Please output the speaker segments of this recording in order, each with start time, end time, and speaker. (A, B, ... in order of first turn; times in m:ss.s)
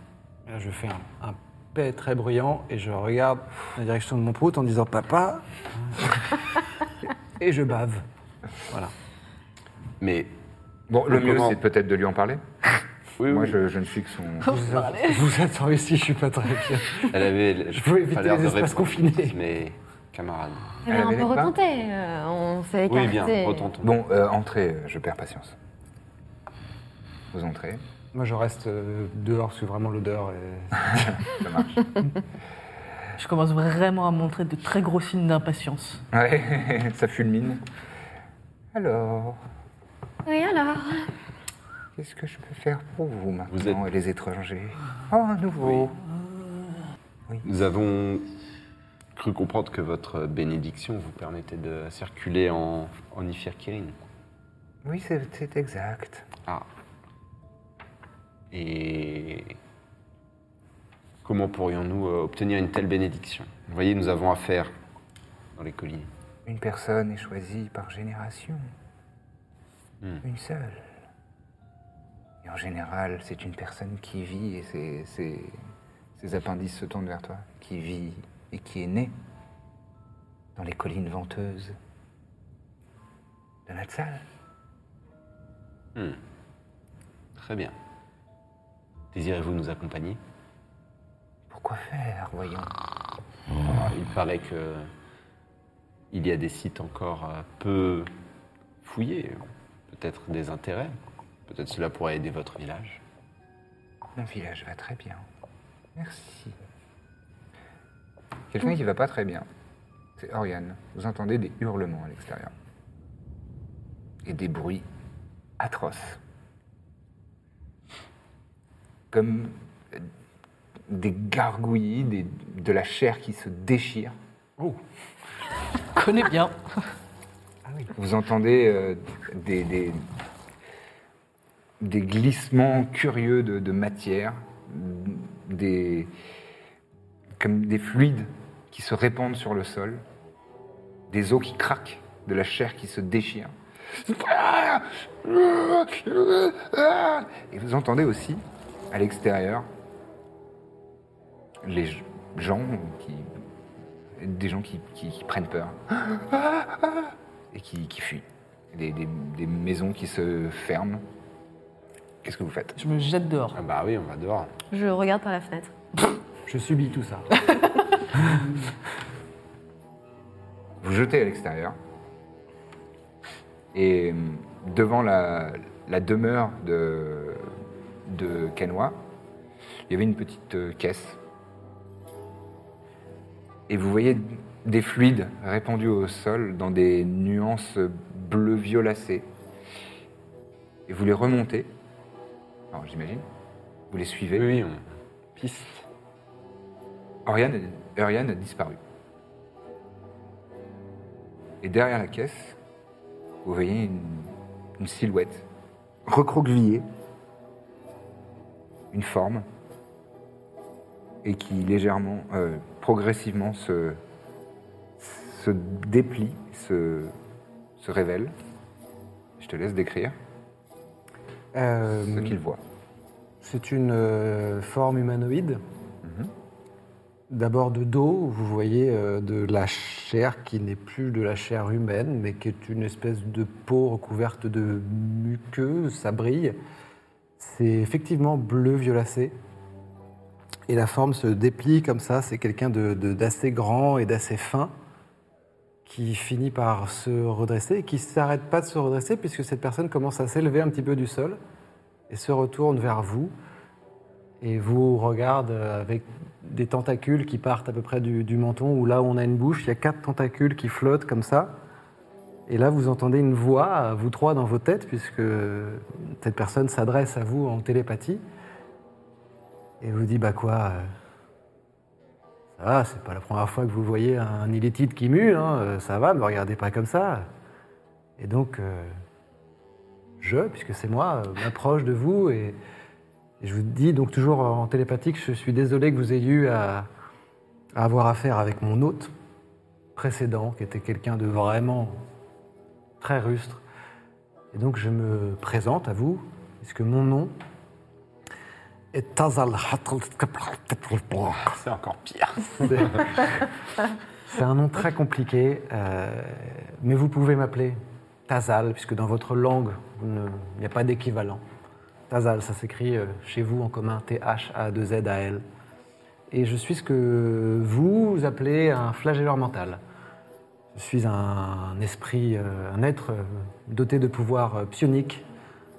0:00.5-0:06.1 A
0:07.4-0:08.0 A
0:10.0-0:10.3 B
0:10.9-0:12.4 C
0:11.1-0:11.6 B
0:13.2-0:13.6 B
0:13.2-0:14.6 C
0:14.4-0:15.3 D
0:14.4-0:17.2 A
0:17.1-0:20.8 B
0:17.7-0:19.4 A
0:20.8-0:23.7 E
0:20.9-0:21.6 C
0:22.9-0:23.9 B
0:23.8-0:25.6 C
0:27.3-0:27.8 C
0:28.1-0:31.2 A
0:30.9-0:31.9 C
0:33.2-0:36.0 D
0:36.1-0:37.6 C
0:38.7-0:39.4 C
0:40.2-0:41.1 E
0:42.0-0:45.9 C
0:43.5-0:43.8 B
0:45.6-0:45.9 B
0:47.4-0:48.3 B
0:49.1-0:54.0 B
0:54.8-0:56.3 C
0:58.5-0:59.6 B
1:01.2-1:04.7 B
1:05.6-1:06.1 B
1:06.4-1:08.7 C
1:10.2-1:10.9 C
1:12.4-1:15.6 C
1:16.2-1:19.1 C
1:20.6-1:21.8 C
1:23.7-1:24.2 C
1:25.9-1:26.2 B
1:27.4-1:27.8 B
1:29.1-1:30.2 B
1:31.5-1:32.7 C
1:33.7-1:34.9 B
1:36.1-1:38.1 B
1:38.8-1:43.0 B
1:44.1-1:45.2 C
1:45.9-1:46.6 C
1:48.5-1:49.4 C
1:50.2-1:52.5 C
1:54.2-1:54.8 C
1:55.6-1:56.2 C
1:59.1-2:00.1 C
2:00.9-2:04.2 C
2:05.9-2:06.6 D
2:07.6-2:07.9 A
2:07.9-2:10.1 C
2:11.8-2:16.1 C
2:17.4-2:20.0 C
2:21.1-2:29.7 C
2:31.6-2:33.4 C
2:34.2-2:41.0 C
2:42.2-2:42.8 C
2:42.8-2:43.6 D
2:43.5-2:44.5 B
2:44.7-2:45.7 E
2:46.5-2:47.3 A
2:50.8-2:51.8 C
2:53.7-2:57.5 C
2:58.0-2:59.0 C
2:59.9-3:01.2 C
3:03.7-3:09.3 C
3:10.9-3:11.7 C
3:12.7-3:13.2 C
3:13.9-3:14.6 C
3:14.3-3:15.8 B
3:17.3-3:18.8 C
3:21.6-3:22.6 C
3:23.4-3:25.5 C
3:26.0-3:26.8 C
3:28.9-3:29.4 C
3:31.2-3:34.0 C
3:35.0-3:37.1 C
3:37.8-3:38.3 C
3:39.4-3:40.2 C
3:41.5-3:42.4 A
3:42.1-3:42.6 C
3:43.4-3:45.6 A
3:46.0-3:46.3 C
3:47.3-3:56.6 A
3:57.4-3:59.4 A
4:00.7-4:04.7 A
4:05.8-4:11.4 A
4:12.1-4:13.3 A
4:14.4-4:21.5 A
4:22.5-4:28.2 A
4:29.8-4:30.9 A
4:32.6-4:37.3 A
4:38.2-4:38.9 A
4:40.2-4:42.6 A
4:43.4-4:46.9 A
4:47.7-4:49.1 A
4:49.9-4:52.0 A
4:53.0-4:53.6 A
4:54.5-4:57.3 A
4:58.9-5:01.6 A
5:01.4-5:02.9 B
5:02.6-5:03.4 A
5:04.3-5:11.4 A
5:12.1-5:15.4 A
5:16.3-5:19.8 A
5:20.7-5:25.2 A